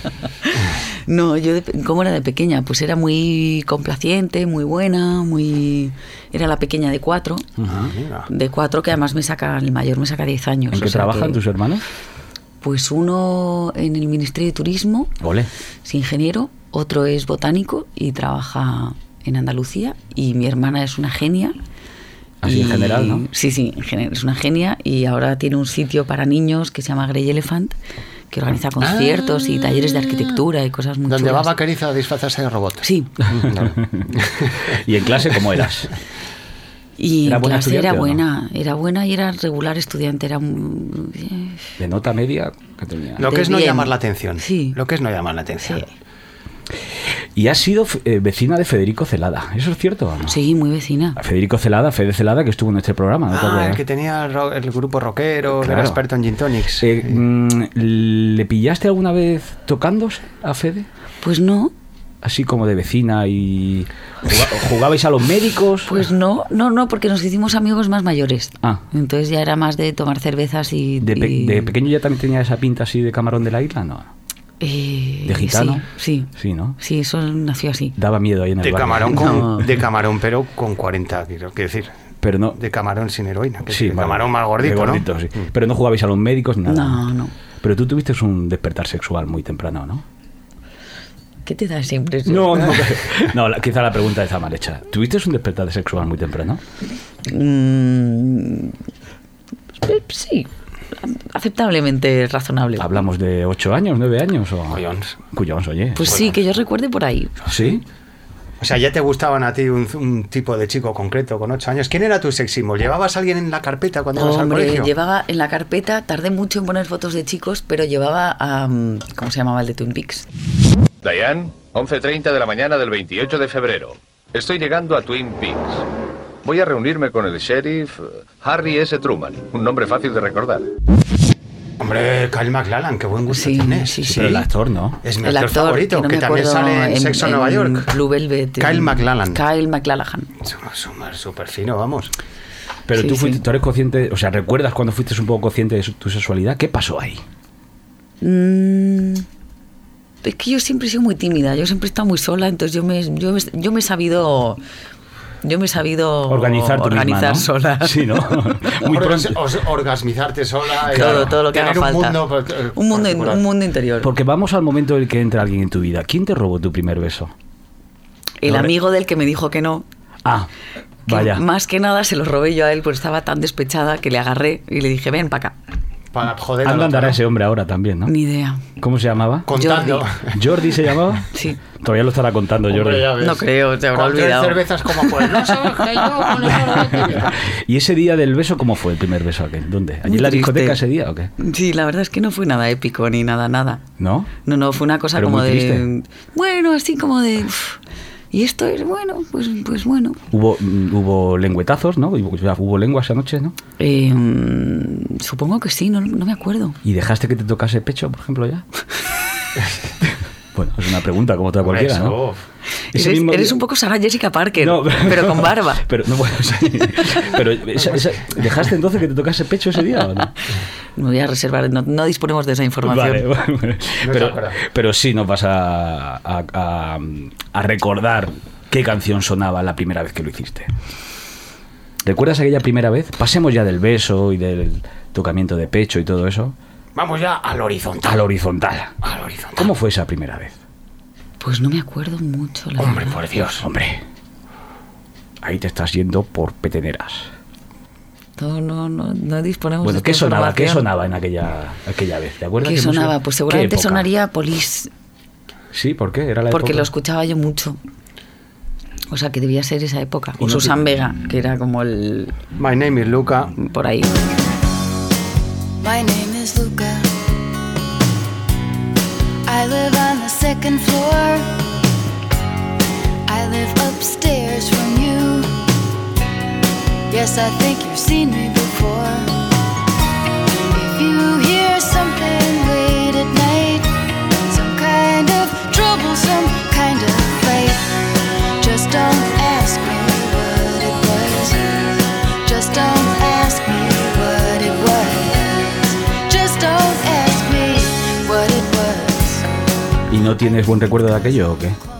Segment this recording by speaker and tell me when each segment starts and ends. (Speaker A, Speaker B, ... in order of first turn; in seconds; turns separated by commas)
Speaker A: 0.4-7.5, Speaker B: 7.6-7.9, Speaker C: 7.7-8.3, Speaker A: 8.3-11.4, Speaker B: 10.7-11.8, Speaker A: 12.6-15.1, Speaker B: 15.2-15.5, Speaker A: 15.8-21.6, Speaker B: 22.4-23.3, Speaker A: 22.4-27.8, Speaker A: 28.3-31.6, Speaker C: 28.8-30.3, Speaker C: 31.1-34.8, Speaker A: 32.8-33.1, Speaker B: 33.3-34.1, Speaker B: 34.7-35.9, Speaker A: 37.0-41.6, Speaker B: 37.2-38.2, Speaker B: 41.8-43.3, Speaker C: 43.2-45.9, Speaker A: 43.2-44.8, Speaker A: 45.6-45.9, Speaker B: 47.4-50.4, Speaker A: 50.3-51.2, Speaker B: 51.1-53.8, Speaker C: 53.3-57.2, Speaker B: 55.5-56.0, Speaker B: 56.8-60.9, Speaker A: 61.2-61.7, Speaker B: 62.2-66.1, Speaker A: 65.9-71.7, Speaker B: 71.0-74.1, Speaker A: 74.6-77.9, Speaker B: 75.3-75.8, Speaker B: 76.4-76.8, Speaker B: 78.0-79.6, Speaker C: 78.6-81.9, Speaker A: 79.1-79.6, Speaker B: 82.2-82.6, Speaker C: 82.6-85.1, Speaker B: 83.7-87.1, Speaker A: 86.7-87.3, Speaker B: 87.6-90.0, Speaker A: 91.5-92.8, Speaker B: 92.3-96.6, Speaker A: 97.3-98.7, Speaker A: 99.8-100.5, Speaker A: 101.0-103.0, Speaker B: 102.8-104.8, Speaker C: 104.7-105.1, Speaker B: 105.3-106.3, Speaker A: 105.9-107.3, Speaker C: 106.0-106.4, Speaker C: 107.4-107.8, Speaker B: 107.5-107.8, Speaker C: 108.6-114.9, Speaker A: 114.2-120.3, Speaker D: 121.0-125.8, Speaker D: 126.4-130.7, Speaker C: 131.8-134.4, Speaker A: 133.3-134.4, Speaker B: 134.1-135.0, Speaker C: 135.0-137.9, Speaker A: 135.2-140.3, Speaker C: 138.6-139.4, Speaker C: 140.4-142.1, Speaker B: 142.9-147.2, Speaker A: 143.0-143.4, Speaker A: 148.2-149.2, Speaker A: 150.2-154.6, Speaker A: 155.4-158.7, Speaker B: 156.3-159.4, Speaker C: 158.8-163.4, Speaker A: 160.9-164.1, Speaker B: 161.0-161.3, Speaker B: 164.0-167.3, Speaker A: 168.4-169.8, Speaker B: 168.4-168.7, Speaker B: 170.2-170.5, Speaker B: 171.1-171.4, Speaker A: 171.1-175.5, Speaker C: 176.1-177.2, Speaker B: 176.6-178.1, Speaker A: 178.1-178.6, Speaker B: 178.8-179.5, Speaker C: 179.5-180.7, Speaker A: 179.5-180.1, Speaker B: 180.3-183.2, Speaker C: 182.7-187.3, Speaker A: 183.2-185.7, Speaker B: 186.3-191.3, Speaker A: 190.1-190.8, Speaker A: 191.4-193.8, Speaker B: 194.0-194.3, Speaker A: 194.4-197.8, Speaker B: 195.1-195.8, Speaker A: 198.3-200.2, Speaker B: 200.3-203.6, Speaker A: 203.8-206.8, Speaker B: 206.8-208.6, Speaker B: 210.6-212.2, Speaker C: 211.6-212.4, Speaker B: 212.9-213.6, Speaker A: 212.9-215.8, Speaker B: 214.6-220.3, Speaker A: 221.0-223.2, Speaker B: 222.8-230.7, Speaker C: 224.0-224.6, Speaker B: 232.0-236.6, Speaker C: 236.9-238.2, Speaker B: 238.0-238.9, Speaker C: 239.0-239.7, Speaker B: 239.6-240.6, Speaker A: 241.4-243.2, Speaker C: 242.8-243.7, Speaker B: 243.6-244.0, Speaker B: 245.4-247.3, Speaker A: 248.4-250.9, Speaker B: 249.8-254.1, Speaker A: 252.6-254.9, Speaker B: 255.7-256.9, Speaker A: 256.5-257.8, Speaker A: 259.1-262.3, Speaker B: 260.4-260.8, Speaker C: 262.6-263.5, Speaker A: 263.6-264.2, Speaker E: 265.8-267.1, Speaker E: 269.4-271.5, Speaker E: 273.3-275.5, Speaker E: 277.1-279.4, Speaker E: 280.5-283.9, Speaker E: 284.5-288.1, Speaker E: 288.6-299.4, Speaker B: 300.1-301.8